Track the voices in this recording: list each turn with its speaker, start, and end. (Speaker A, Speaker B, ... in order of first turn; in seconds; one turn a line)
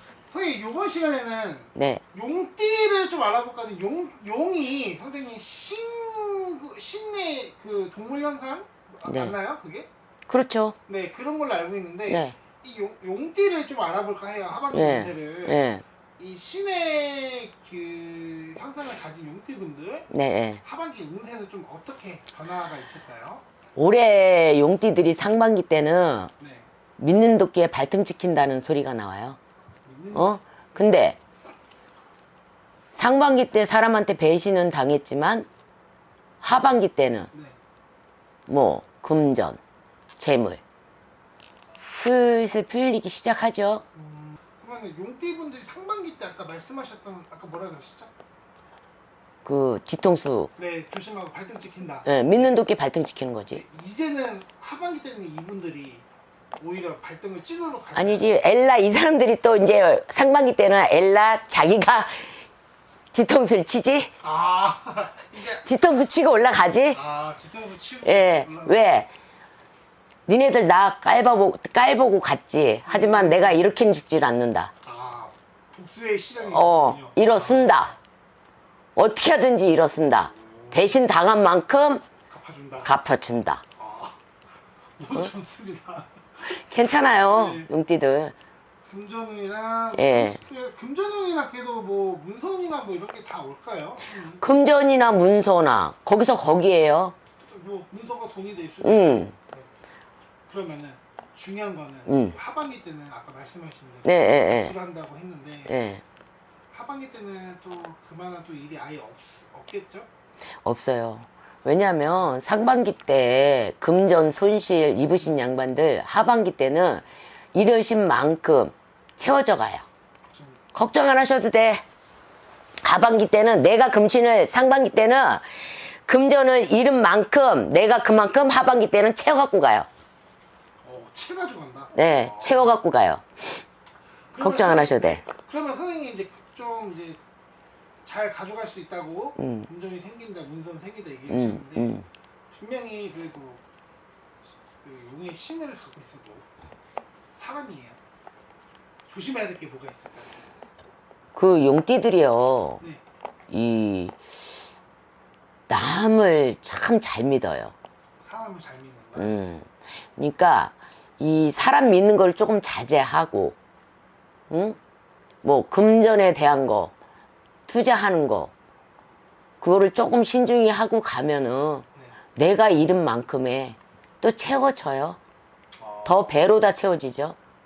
Speaker A: 0.3-9.9
Speaker B: 1.8-2.0
Speaker B: 9.1-9.3
Speaker B: 10.3-10.8
Speaker A: 10.9-15.7
Speaker B: 12.1-12.4
Speaker B: 14.7-15.8
Speaker A: 16.2-20.1
Speaker B: 20.1-20.6
Speaker A: 20.6-23.4
Speaker B: 23.8-26.3
Speaker A: 26.4-26.7
Speaker B: 27.0-29.4
Speaker A: 29.9-30.4
Speaker B: 30.1-31.2
Speaker B: 32.9-35.5
Speaker B: 36.4-37.3
Speaker A: 37.3-37.6
Speaker B: 38.5-39.6
Speaker B: 40.2-40.6
Speaker B: 42.0-43.8
Speaker A: 44.0-48.1
Speaker B: 49.5-50.5
Speaker A: 50.6-52.5
Speaker B: 52.0-53.6
Speaker A: 53.5-56.0
Speaker A: 56.6-58.4
Speaker B: 57.9-62.4
Speaker B: 63.1-64.1
Speaker A: 64.2-65.7
Speaker B: 65.6-67.0
Speaker A: 66.9-68.8
Speaker B: 68.0-69.1
Speaker B: 70.3-74.7
Speaker A: 72.9-73.6
Speaker A: 74.8-78.0
Speaker B: 76.4-77.9
Speaker B: 79.0-82.0
Speaker A: 80.4-81.0
Speaker A: 82.3-82.9
Speaker B: 82.8-83.6
Speaker A: 83.8-84.2
Speaker A: 85.0-86.6
Speaker B: 86.5-88.3
Speaker A: 87.2-87.7
Speaker A: 88.8-94.4
Speaker B: 90.0-90.4
Speaker B: 94.4-97.2
Speaker A: 97.4-99.7
Speaker B: 98.8-99.3
Speaker A: 100.5-105.8
Speaker B: 102.1-102.4
Speaker B: 104.0-104.8
Speaker B: 105.7-106.0
Speaker A: 106.7-110.1
Speaker B: 110.6-119.8
Speaker A: 120.3-120.6
Speaker B: 120.7-121.8
Speaker B: 122.8-125.5
Speaker B: 126.0-129.9
Speaker A: 130.8-132.7
Speaker B: 131.9-133.6
Speaker A: 134.3-137.2
Speaker B: 134.4-135.2
Speaker A: 138.0-142.0
Speaker B: 139.4-139.7
Speaker B: 141.3-142.1
Speaker A: 142.5-143.6
Speaker A: 144.8-146.4
Speaker A: 147.3-148.0
Speaker A: 149.1-150.4
Speaker B: 151.3-152.8
Speaker B: 153.5-154.7
Speaker B: 155.7-157.7
Speaker A: 158.2-159.4
Speaker B: 159.2-163.6
Speaker B: 164.5-164.8
Speaker B: 165.4-166.9
Speaker B: 167.7-168.5
Speaker B: 169.6-175.2
Speaker A: 175.8-176.3
Speaker B: 176.0-177.4